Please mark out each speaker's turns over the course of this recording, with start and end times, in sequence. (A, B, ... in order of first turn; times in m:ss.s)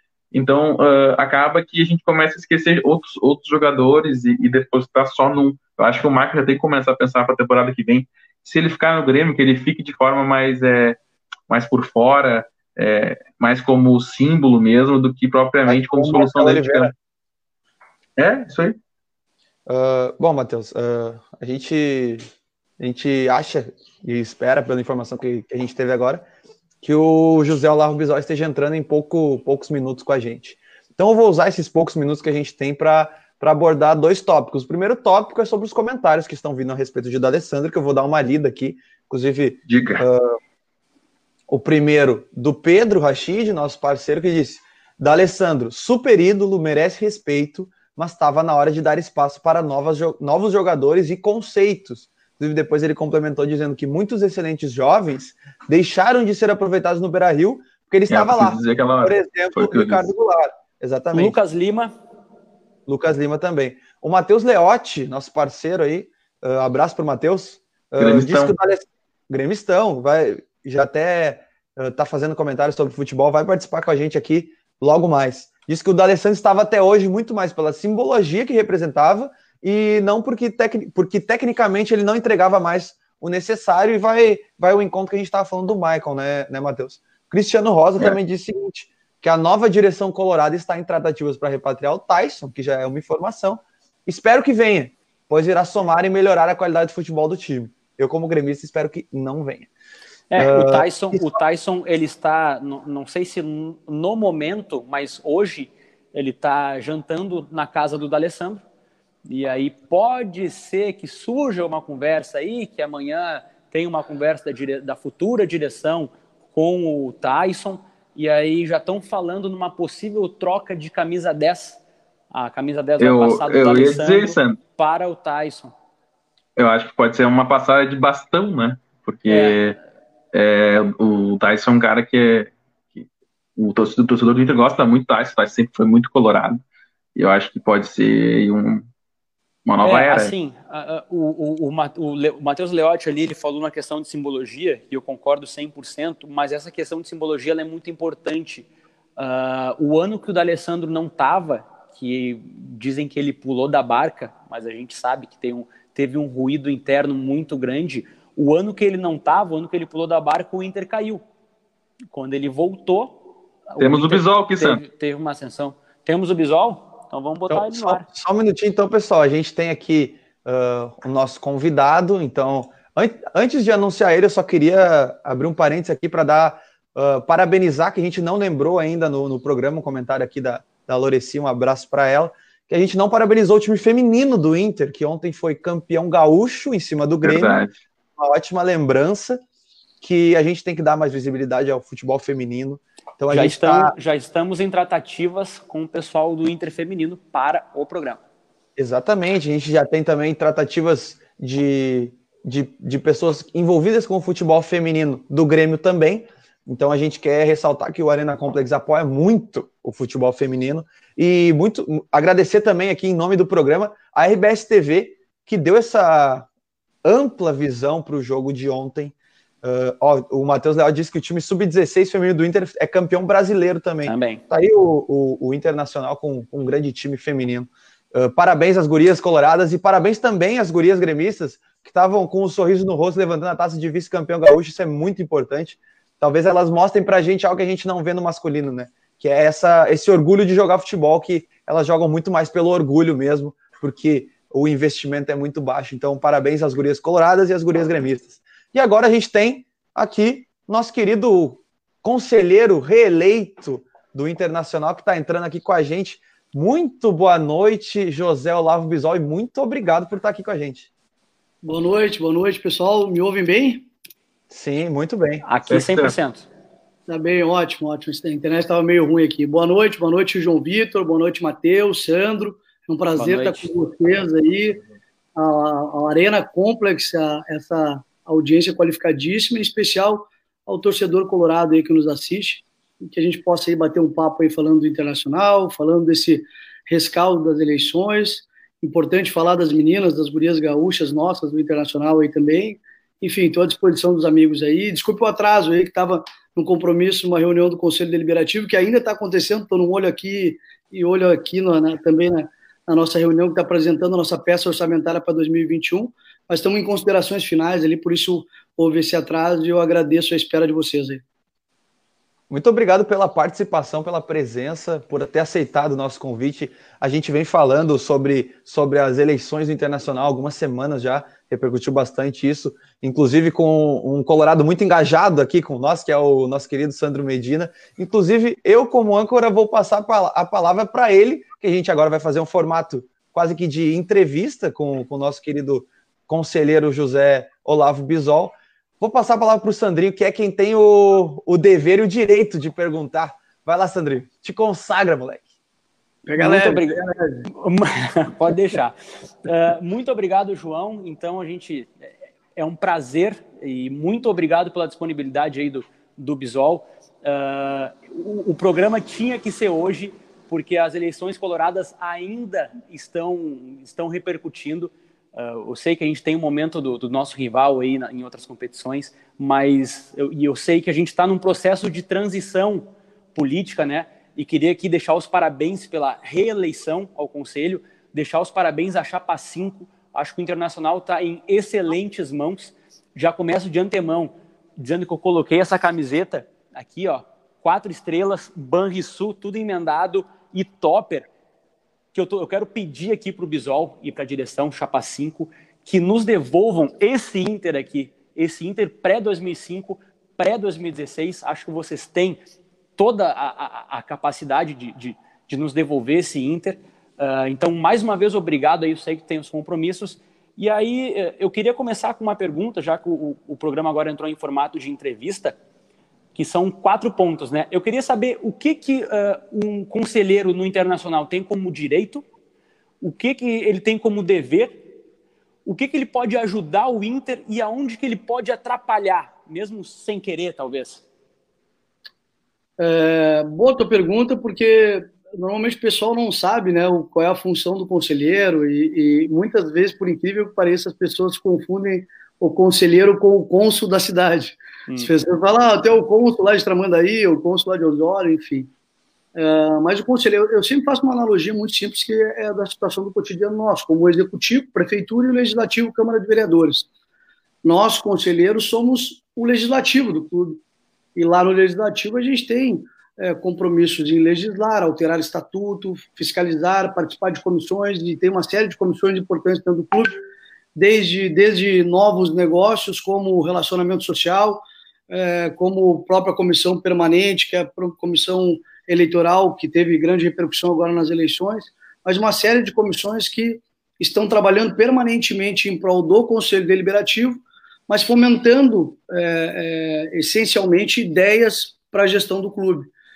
0:00.3-0:16.9 A
0:15.7-0:16.9 B
0:18.2-0:18.8 A
0:19.7-0:22.3 B
0:22.8-0:26.3 B
0:26.8-0:40.4 B
0:39.7-0:40.0 A
0:41.5-1:01.4 B
0:58.1-1:00.1 A
1:01.1-1:01.9 C
1:02.9-1:39.7 B
1:08.0-1:08.5 A
1:40.3-1:48.6 C
1:40.4-1:41.3 B
1:49.3-2:01.8 C
2:02.3-2:05.7 C
2:03.0-2:04.6 A
2:06.6-2:09.8 A
2:09.3-2:09.6 C
2:10.3-2:16.6 A
2:17.2-2:18.9 A
2:19.6-2:20.3 A
2:19.8-2:41.2 C
2:42.1-2:43.2 C
2:43.7-2:48.1 C
2:43.8-2:44.8 A
2:47.5-3:07.6 B
3:07.2-3:07.7 A
3:08.2-3:09.4 B
3:10.0-3:13.9 B
3:13.3-3:18.2 C
3:18.8-3:36.5 B
3:37.0-4:20.9 B
3:44.0-3:44.4 C
4:21.6-4:23.9 D
4:24.5-4:25.4 B
4:25.4-4:26.5 C
4:25.7-4:26.1 A
4:27.1-4:34.8 D
4:33.2-4:33.7 C
4:35.4-5:11.2 D
5:12.5-5:45.4 B
5:46.3-5:47.5 D
5:46.4-5:47.0 C
5:47.5-5:51.9 C
5:52.6-6:31.3 C
6:32.1-6:42.4 C
6:43.0-6:55.6 C
6:56.4-7:02.2 C
7:03.0-7:04.8 C
7:05.6-7:11.0 C
7:12.8-7:28.7 D
7:29.4-7:36.9 D
7:37.6-7:40.6 D
7:41.2-7:50.2 D
7:50.8-8:12.9 D